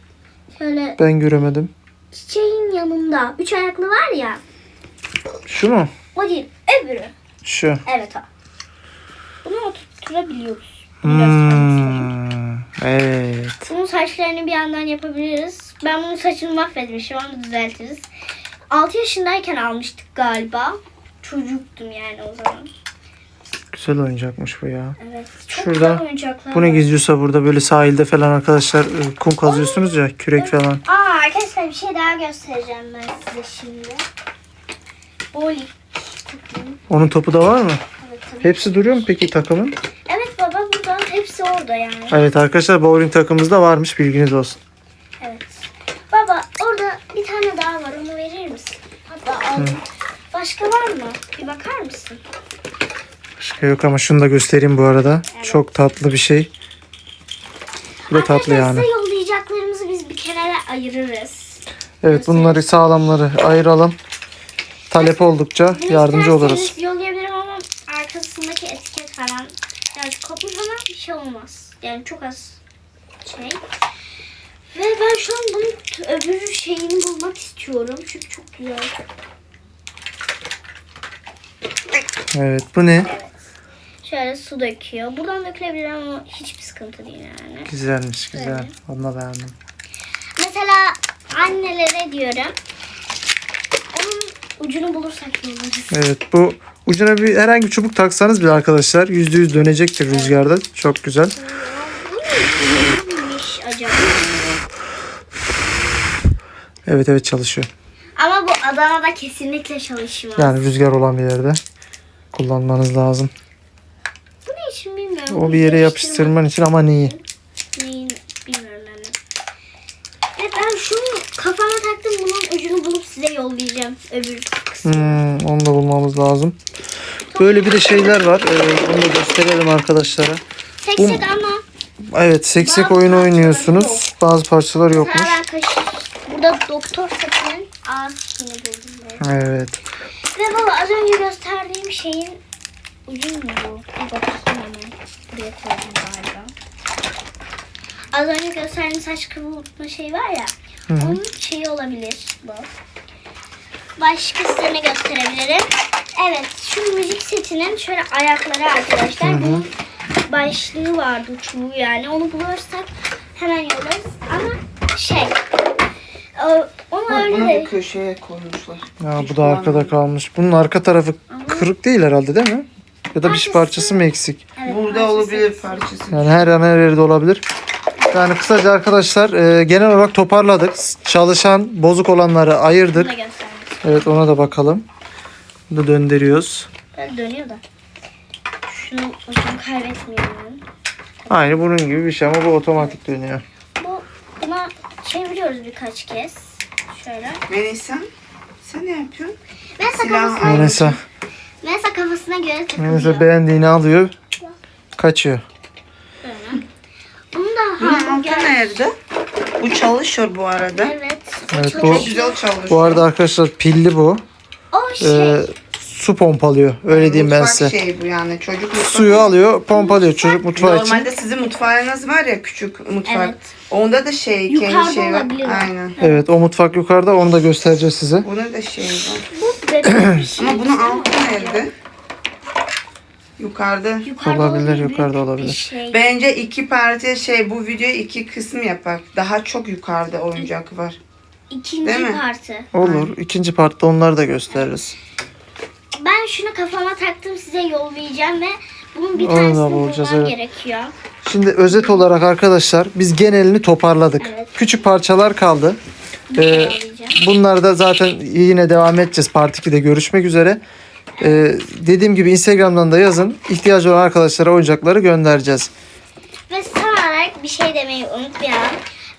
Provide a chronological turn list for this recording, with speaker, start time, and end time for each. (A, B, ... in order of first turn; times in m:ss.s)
0:00.5-0:01.0 A
0:01.0-0:01.7 B
0:02.1-0:04.4 A
0:05.5-0:05.9 B
0:06.1-0:07.1 A
0:07.4-0:07.8 B
0:07.8-0:08.3 A
0:09.4-0:12.1 A
0:11.0-0:13.7 B
0:13.7-0:18.1 A
0:18.7-0:22.7 A
0:23.7-0:25.0 B
0:25.0-0:26.9 A
0:25.5-0:30.8 B
0:29.4-0:34.1 A
0:35.3-0:36.8 A
0:36.9-0:37.8 B
0:38.0-0:39.0 A
0:38.4-0:39.8 B
0:40.1-0:42.2 A
0:42.1-0:44.6 B
0:45.2-0:52.2 A
0:53.4-0:56.5 B
0:55.3-0:55.7 A
0:58.1-1:02.6 A
0:58.1-0:58.9 B
1:02.0-1:04.0 B
1:04.9-1:06.7 B
1:04.9-1:12.6 A
1:13.2-1:13.6 A
1:14.7-1:19.0 A
1:22.3-1:23.1 B
1:23.1-1:23.3 A
1:24.0-1:27.7 A
1:27.7-1:29.6 B
1:28.3-1:28.7 A
1:30.4-1:32.6 A
1:33.9-1:36.0 A
1:35.9-1:41.4 B
1:40.1-1:40.4 A
1:41.4-1:44.5 A
1:46.9-1:47.7 B
1:48.2-1:50.6 A
1:50.4-1:51.6 B
1:52.3-1:53.3 B
1:54.4-1:56.3 A
1:55.3-1:57.2 B
1:57.8-1:59.2 A
2:00.4-2:05.2 A
2:04.8-2:06.6 B
2:07.3-2:08.1 A
2:07.3-2:10.4 B
2:10.8-2:11.6 A
2:11.0-2:11.3 B
2:12.0-2:15.4 B
2:12.6-2:14.1 A
2:14.9-2:19.3 A
2:19.2-2:19.8 B
2:20.3-2:22.4 A
2:23.1-2:26.5 A
2:28.1-2:32.7 A
2:30.9-2:31.2 B
2:34.0-2:39.7 A
2:39.2-2:39.7 B
2:40.3-2:45.4 A
2:46.4-2:47.7 A
2:47.1-2:49.9 C
2:49.0-2:54.5 B
2:51.3-2:51.7 A
2:53.2-2:55.9 A
2:54.6-2:56.4 C
2:56.1-2:57.4 B
2:58.1-3:03.1 B
3:02.9-3:03.9 A
3:03.8-3:04.9 B
3:05.7-3:06.7 B
3:06.9-3:07.6 A
3:08.7-3:10.6 A
3:11.2-3:11.5 A
3:11.3-3:13.4 B
3:13.8-3:17.4 A
3:17.5-3:18.1 C
3:18.6-3:19.4 C
3:19.8-3:20.8 A
3:19.9-3:21.0 C
3:20.4-3:21.0 B
3:21.6-3:23.3 A
3:22.8-3:24.1 B
3:25.0-3:25.4 B
3:26.2-3:26.6 A
3:27.3-3:28.8 A
3:27.8-3:29.0 C
3:29.6-3:30.9 C
3:30.8-3:32.4 A
3:31.5-3:32.1 B
3:31.8-3:33.0 C
3:32.7-3:34.2 B
3:34.7-3:35.5 A
3:35.0-3:37.8 B
3:36.9-3:39.4 C
3:38.8-3:41.1 B
3:39.7-3:40.4 A
3:40.5-3:46.0 C
3:43.0-3:43.5 A
3:44.5-3:46.2 A
3:46.0-3:48.3 B
3:48.2-3:49.3 C
3:49.3-3:51.7 A
3:49.9-3:50.2 B
3:50.3-3:51.7 C
3:53.4-3:54.1 C
3:54.0-3:56.2 A
3:54.2-3:55.7 B
3:55.9-4:01.0 C
4:01.5-4:02.7 A
4:01.8-4:02.2 C
4:02.7-4:04.9 B
4:02.8-4:03.1 C
4:05.9-4:10.9 A
4:09.2-4:10.4 B
4:11.2-4:15.8 B
4:11.7-4:12.0 A
4:14.2-4:14.5 A
4:16.3-4:17.2 A
4:16.3-4:20.6 B
4:21.1-4:21.5 A
4:21.2-4:25.7 B
4:26.5-4:28.8 A